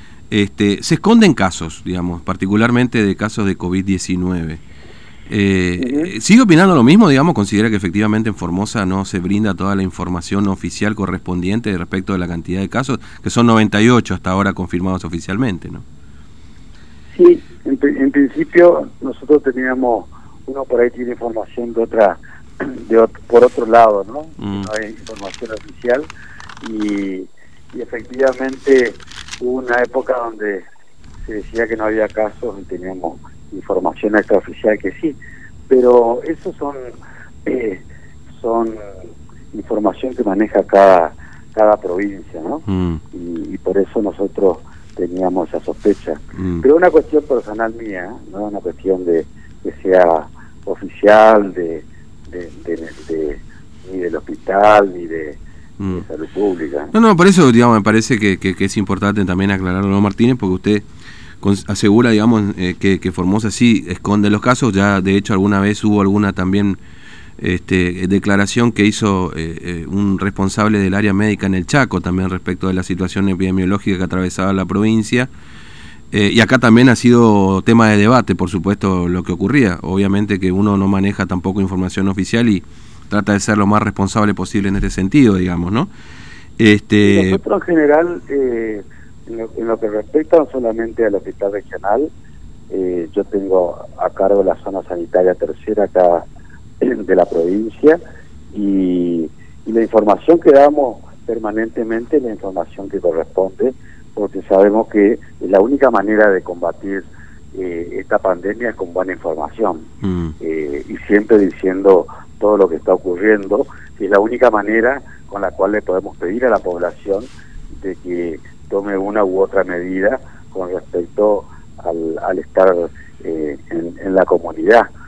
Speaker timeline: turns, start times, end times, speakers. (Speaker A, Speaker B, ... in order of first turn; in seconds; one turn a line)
Speaker A: 0.3-4.6
Speaker A: 5.3-15.8
Speaker B: 5.8-6.1
Speaker B: 17.1-26.1
Speaker A: 24.4-24.7
Speaker B: 26.6-30.7
Speaker B: 31.2-35.2
Speaker B: 35.7-36.9
Speaker B: 37.5-37.8
Speaker B: 38.4-38.8
Speaker B: 39.5-56.9
Speaker A: 42.7-43.0
Speaker A: 46.4-46.6
Speaker A: 56.9-60.9
Speaker A: 61.4-66.8
Speaker A: 67.4-75.3
Speaker A: 76.1-85.9
Speaker A: 86.6-87.4
Speaker B: 87.0-92.1
Speaker B: 92.7-96.2
Speaker B: 96.8-98.0
Speaker B: 98.5-109.9
Speaker A: 110.0-110.3
Speaker B: 110.4-124.9